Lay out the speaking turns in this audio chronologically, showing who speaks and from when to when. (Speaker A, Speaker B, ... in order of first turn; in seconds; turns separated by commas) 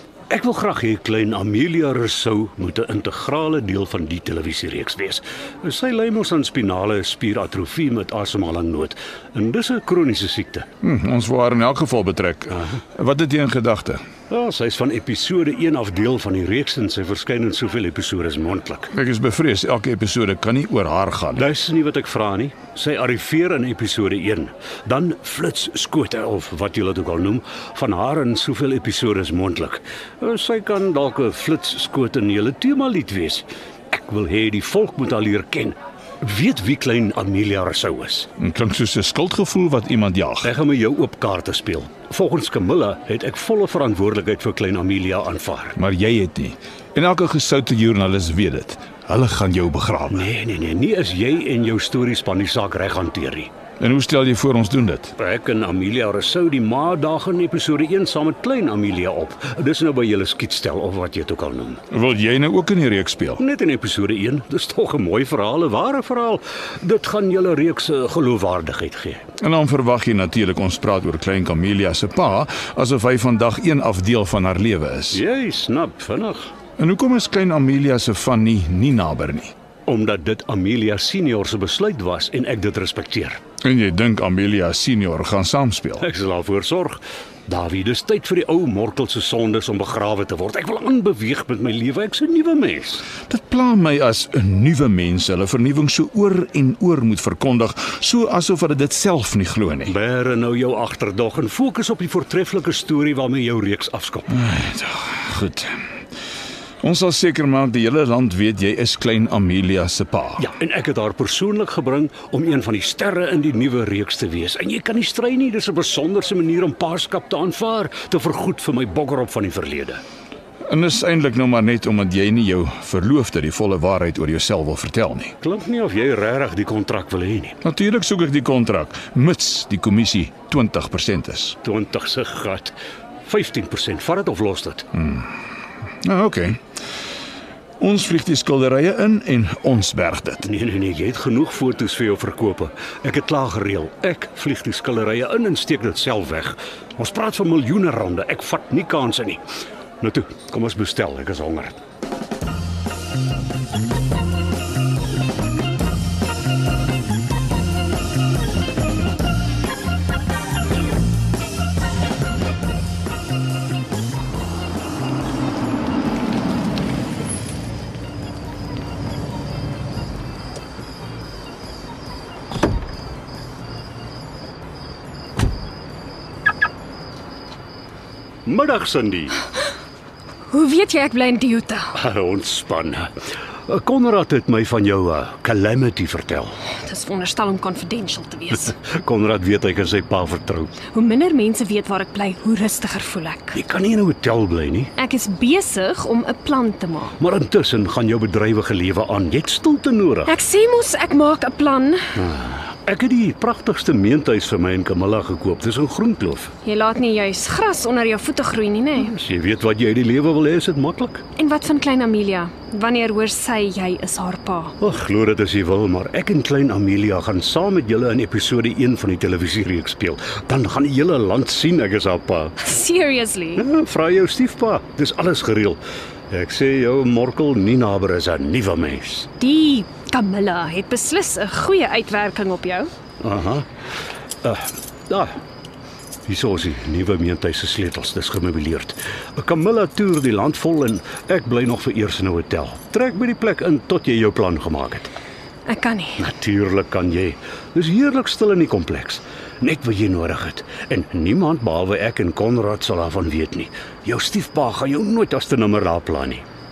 Speaker A: 0.3-10.7, Speaker B: 10.8-14.0, Speaker A: 14.3-18.9, Speaker B: 18.9-21.4, Speaker A: 21.4-38.3, Speaker B: 38.4-40.5, Speaker A: 40.4-45.8, Speaker B: 45.8-50.2, Speaker A: 50.1-53.5, Speaker B: 53.8-55.1, Speaker A: 55.2-61.8, Speaker B: 61.9-63.4, Speaker A: 63.4-69.3, Speaker B: 69.4-75.2, Speaker A: 75.1-76.5, Speaker B: 76.8-79.5, Speaker A: 79.9-83.4, Speaker B: 83.6-86.0, Speaker A: 86.0-93.1, Speaker B: 93.2-99.9, Speaker A: 99.9-104.3, Speaker B: 104.3-105.8, Speaker B: 106.8-110.4, Speaker A: 110.4-120.0, Speaker B: 120.7-125.3, Speaker A: 125.4-127.6, Speaker B: 127.6-131.6, Speaker A: 131.6-132.7, Speaker A: 133.2-134.9, Speaker B: 134.9-135.3, Speaker B: 136.0-136.6, Speaker B: 137.8-140.4, Speaker A: 140.4-149.4, Speaker A: 150.0-151.8, Speaker A: 178.4-179.4, Speaker C: 180.5-181.9, Speaker A: 181.9-183.1, Speaker A: 183.7-186.5, Speaker C: 186.8-188.7, Speaker A: 188.7-190.8, Speaker C: 190.9-193.6, Speaker A: 193.5-194.9, Speaker C: 195.0-197.2, Speaker A: 197.2-200.4, Speaker C: 200.3-202.1, Speaker A: 202.2-206.5, Speaker C: 206.6-209.1, Speaker A: 209.0-211.2, Speaker C: 211.4-214.7, Speaker A: 214.8-222.5, Speaker C: 222.6-223.6, Speaker A: 223.6-225.8, Speaker A: 226.3-229.3, Speaker C: 229.4-232.9, Speaker A: 233.2-233.7, Speaker A: 234.4-235.3, Speaker A: 236.3-245.1, Speaker C: 245.7-246.2, Speaker A: 246.2-256.4